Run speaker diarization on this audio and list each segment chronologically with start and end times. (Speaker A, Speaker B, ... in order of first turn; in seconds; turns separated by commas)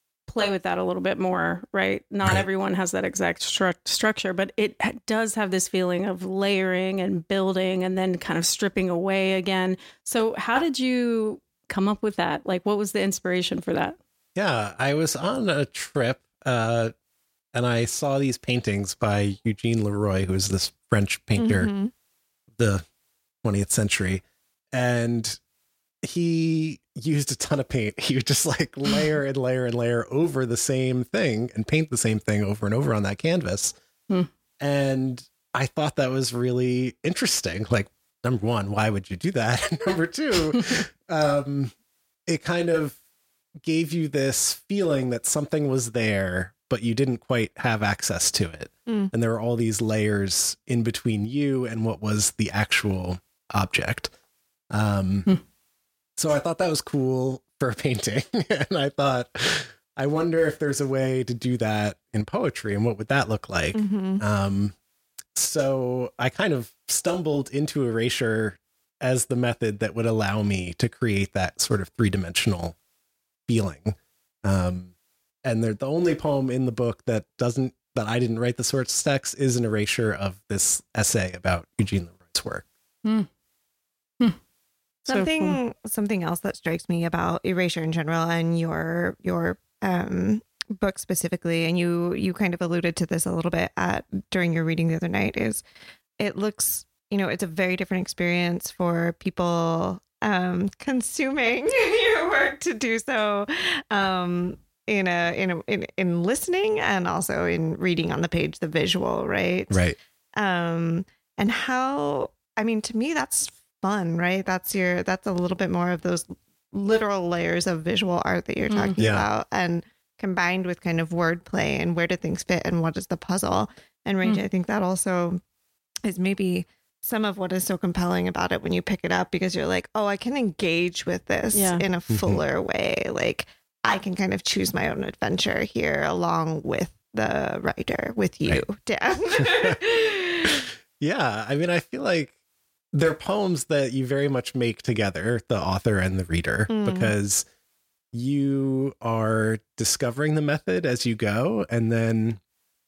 Speaker A: 0.3-14.0, Speaker B: 14.3-16.9, Speaker B: 17.5-21.7, Speaker C: 21.4-21.9, Speaker B: 22.6-22.9, Speaker B: 23.4-25.4, Speaker B: 26.0-33.8, Speaker B: 34.6-41.7, Speaker B: 42.3-43.0, Speaker B: 43.6-54.1, Speaker C: 48.9-49.1, Speaker B: 54.7-55.3, Speaker B: 56.2-64.8, Speaker C: 63.7-64.2, Speaker B: 65.3-72.8, Speaker B: 73.5-74.9, Speaker B: 75.5-82.7, Speaker A: 83.0-83.3, Speaker A: 85.1-85.6, Speaker C: 85.1-95.6, Speaker C: 96.2-125.4, Speaker B: 109.7-110.0, Speaker A: 118.7-119.0, Speaker B: 119.0-119.2, Speaker C: 126.0-140.6, Speaker A: 131.5-131.8, Speaker B: 132.1-132.4, Speaker B: 139.4-139.8, Speaker B: 141.0-142.3, Speaker B: 142.9-147.5, Speaker C: 146.7-147.1, Speaker B: 148.1-152.4